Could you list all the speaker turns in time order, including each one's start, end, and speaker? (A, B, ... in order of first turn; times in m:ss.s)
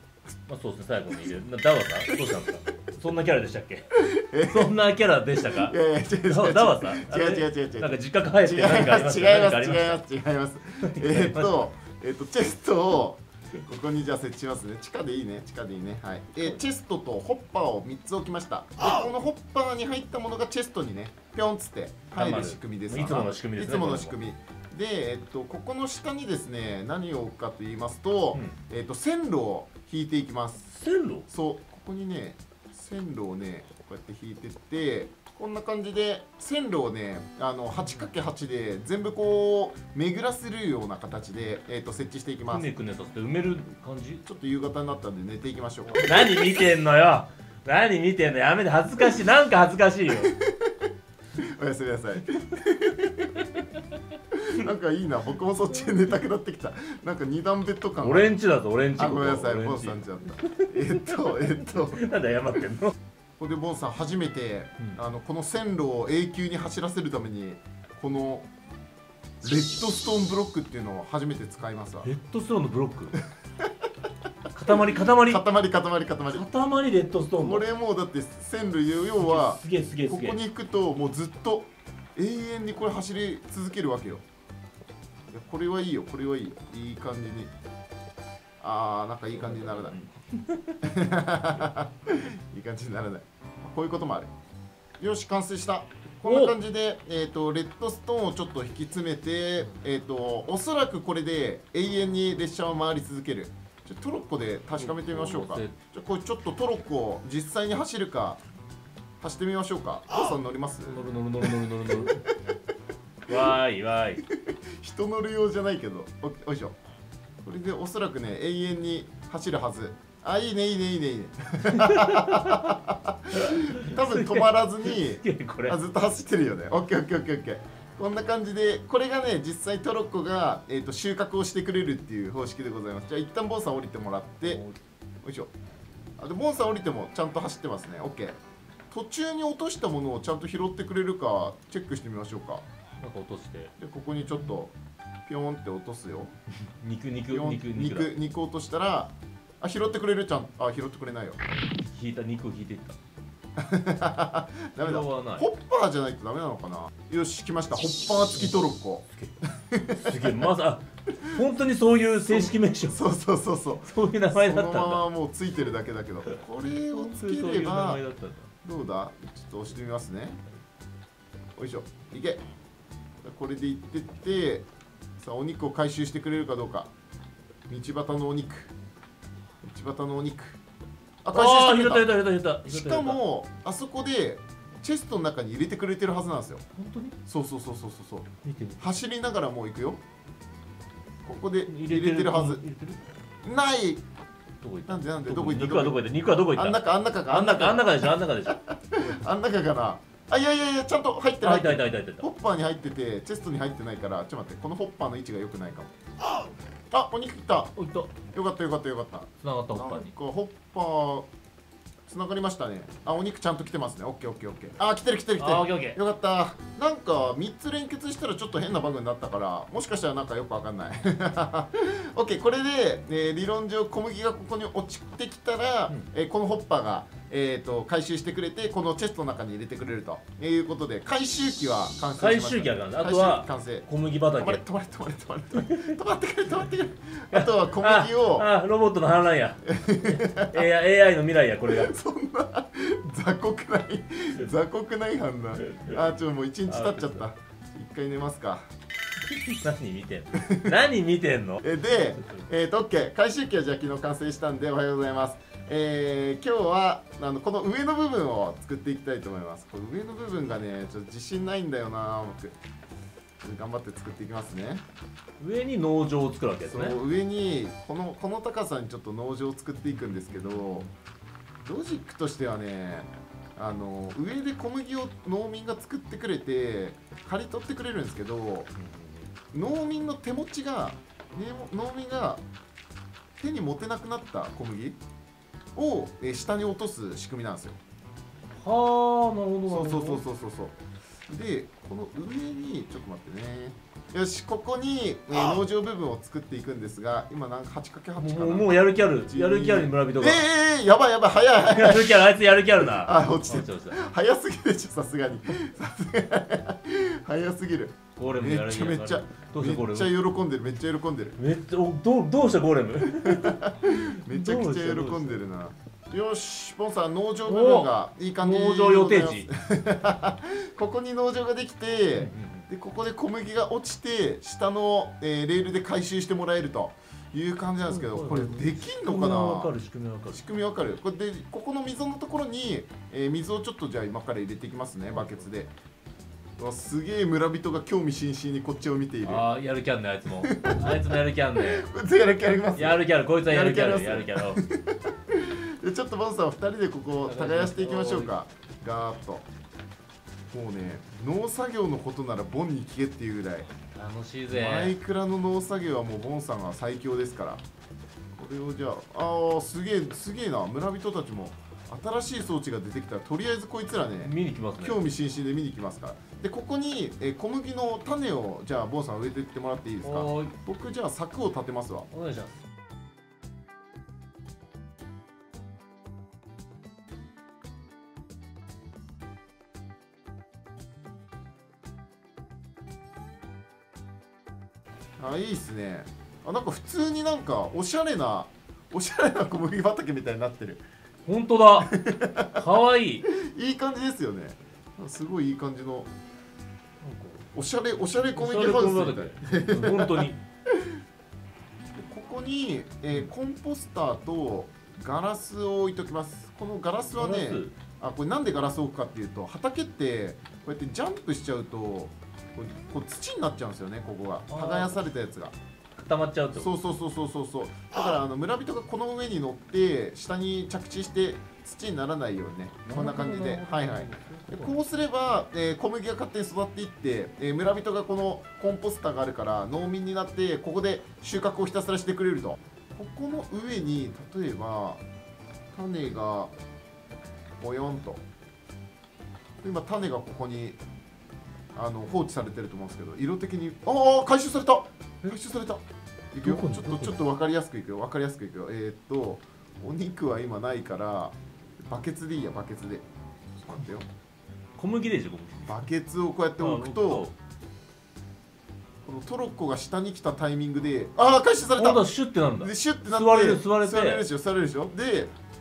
0:00.5-0:04.0 A
0:04.0-0:04.8 B
0:04.5-0:05.8 A
0:05.4-0:30.7 B
0:06.3-0:10.0 A
0:10.8-0:11.7 A
0:22.1-0:24.2 A
0:30.7-0:31.3 A
0:31.3-0:42.7 B
0:37.8-0:38.1 A
0:42.5-0:44.2 A
0:44.2-0:46.6 B
0:46.0-0:50.3 A
0:50.2-0:50.5 B
0:51.4-0:53.4 B
0:53.4-0:53.7 A
0:54.4-0:58.3 B
0:58.0-1:02.9 A
0:59.0-1:02.0 B
1:03.4-1:08.5 B
1:09.4-1:12.1 B
1:12.0-1:13.2 A
1:14.5-1:15.4 A
1:14.7-1:16.4 B
1:16.3-1:17.7 A
1:17.4-1:24.2 B
1:19.2-1:20.4 A
1:25.3-1:27.5 B
1:28.6-1:30.0 B
1:29.3-1:30.8 A
1:30.8-1:34.3 B
1:35.0-1:48.4 B
1:36.2-1:36.6 A
1:44.8-1:45.8 A
1:49.2-1:51.9 B
1:50.9-1:52.2 A
1:53.3-1:54.2 A
1:54.4-1:56.8 B
1:57.4-2:14.6 B
2:01.7-2:02.8 A
2:03.3-2:05.8 A
2:14.4-2:14.8 A
2:15.2-2:15.5 B
2:16.2-2:18.4 B
2:18.9-2:22.6 B
2:23.0-2:23.7 A
2:23.8-2:24.7 B
2:25.3-2:26.3 B
2:26.8-2:28.1 A
2:27.3-2:31.4 B
2:31.5-2:33.0 A
2:33.6-2:39.1 B
2:34.8-2:35.4 A
2:39.1-2:39.4 A
2:39.7-2:40.4 B
2:39.9-2:43.0 A
2:42.3-2:48.0 B
2:43.8-2:45.0 A
2:46.3-2:48.5 A
2:48.6-2:50.4 B
2:51.6-2:52.4 B
2:53.2-2:54.6 B
2:55.2-2:56.9 B
2:57.7-2:58.7 B
2:59.6-3:00.6 B
3:01.2-3:02.1 B
3:01.3-3:03.2 A
3:02.7-3:06.6 B
3:06.8-3:07.2 A
3:07.3-3:10.0 B
3:08.4-3:08.9 A
3:11.2-3:12.6 B
3:11.7-3:13.1 A
3:13.4-3:14.0 B
3:14.6-3:19.3 A
3:14.9-3:16.0 B
3:16.5-3:25.9 B
3:21.4-3:22.3 A
3:26.9-3:27.8 B
3:27.8-3:28.2 A
3:28.3-3:31.3 B
3:29.4-3:30.1 A
3:32.1-3:58.5 B
3:35.4-3:36.0 A
3:52.2-3:54.6 A
3:55.6-3:55.9 A
3:57.3-4:01.9 A
3:59.7-4:00.6 B
4:01.7-4:08.6 B
4:06.7-4:07.2 A
4:09.3-4:12.4 A
4:10.4-4:10.7 B
4:11.6-4:22.6 B
4:23.4-4:24.8 B
4:25.4-4:27.0 A
4:26.7-4:30.9 B
4:30.3-4:30.9 A
4:31.6-4:38.7 B
4:38.8-4:39.3 A
4:39.5-4:42.4 B
4:43.4-4:45.0 B
4:45.8-4:47.8 B
4:48.6-4:50.2 A
4:49.7-4:50.8 B
4:51.3-4:58.7 B
4:58.2-5:00.4 A
4:59.2-5:02.3 B
5:01.7-5:04.0 A
5:02.8-5:11.4 B
5:08.2-5:10.1 A
5:11.4-5:15.4 A
5:13.2-5:29.7 B
5:17.5-5:19.5 A
5:22.2-5:22.7 A
5:27.9-5:30.4 A
5:30.3-5:35.7 B
5:35.1-5:35.5 A
5:36.6-5:39.5 B
5:39.2-5:41.9 A
5:40.4-5:41.0 B
5:41.6-5:49.4 B
5:42.8-5:44.6 A
5:47.3-5:48.3 A
5:50.5-5:53.7 B
5:53.9-5:55.0 A
5:54.5-5:57.6 B
5:58.4-6:12.1 B
6:04.2-6:05.0 A
6:10.0-6:10.6 A
6:12.1-6:12.6 A
6:25.2-6:30.8 B
6:31.2-6:31.9 A
6:31.8-6:32.6 B
6:32.5-6:33.3 A
6:33.3-6:36.1 B
6:37.0-6:37.5 A
6:37.5-6:40.3 B
6:38.4-6:40.4 A
6:42.0-6:55.5 B
6:47.2-6:47.7 A
6:54.5-6:55.0 A
6:56.0-6:56.8 A
6:56.5-7:15.0 B
7:02.9-7:04.7 A
7:15.7-7:16.5 B
7:17.6-7:18.2 B
7:19.6-7:20.8 B
7:21.8-7:33.0 B
7:26.4-7:27.2 A
7:33.6-7:34.1 B
7:34.8-7:35.9 A
7:35.7-7:37.3 B
7:36.6-7:37.4 A
7:39.0-7:42.0 B
7:41.8-7:44.2 A
7:42.6-7:45.3 B